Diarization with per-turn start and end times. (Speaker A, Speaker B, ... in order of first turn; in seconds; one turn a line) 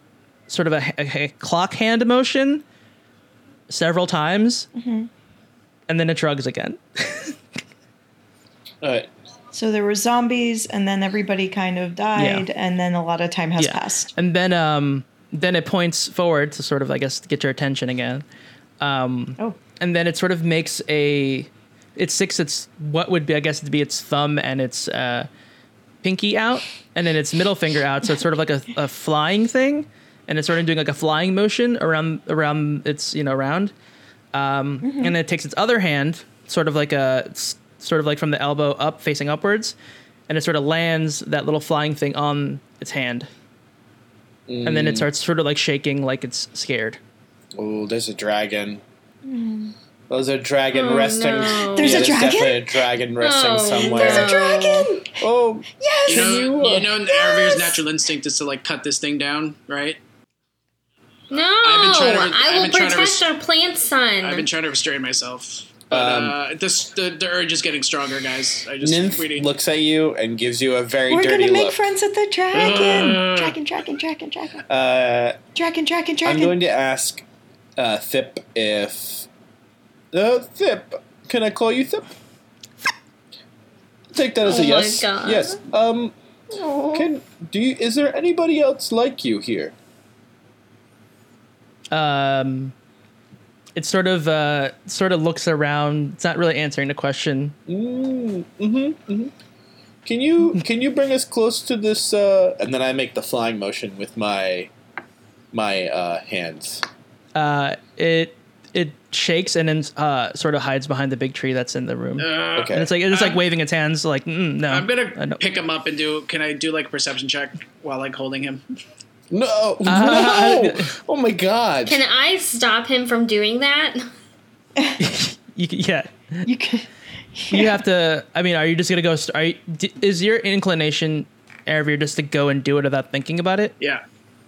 Speaker A: 0.5-2.6
Speaker A: 3.7-4.7
Speaker B: 4.8-5.1
Speaker A: 5.9-7.4
Speaker C: 8.8-9.1
Speaker B: 9.5-14.1
Speaker A: 12.2-12.5
Speaker A: 13.6-18.2
Speaker A: 18.8-25.3
Speaker A: 26.0-33.7
Speaker A: 34.3-39.8
Speaker B: 34.8-35.1
Speaker A: 40.3-43.3
Speaker C: 44.5-45.1
Speaker A: 44.6-47.0
Speaker C: 47.5-48.8
Speaker B: 49.2-49.8
Speaker C: 50.1-54.4
Speaker D: 50.7-52.3
Speaker B: 51.7-52.8
Speaker D: 53.2-54.9
Speaker B: 53.8-55.2
Speaker C: 55.2-56.9
Speaker B: 55.8-57.8
Speaker E: 56.1-60.0
Speaker D: 61.3-64.5
Speaker E: 61.6-63.3
Speaker E: 64.2-69.5
Speaker C: 65.9-66.4
Speaker C: 68.8-71.9
Speaker B: 71.1-74.7
Speaker E: 72.5-73.6
Speaker C: 74.7-75.4
Speaker B: 75.5-76.6
Speaker C: 76.2-77.2
Speaker C: 77.8-79.3
Speaker C: 80.1-82.1
Speaker C: 84.1-86.1
Speaker D: 84.4-85.6
Speaker B: 86.5-87.1
Speaker C: 86.9-89.7
Speaker A: 91.9-92.7
Speaker A: 93.8-97.6
Speaker C: 97.7-99.3
Speaker C: 100.0-104.7
Speaker C: 105.5-106.8
Speaker A: 107.3-115.4
Speaker E: 112.2-113.4
Speaker C: 112.5-112.9
Speaker E: 114.7-118.6
Speaker C: 119.3-122.0
Speaker A: 119.8-120.9
Speaker D: 121.9-124.1
Speaker A: 125.0-126.5
Speaker B: 126.5-127.8
Speaker A: 127.5-133.8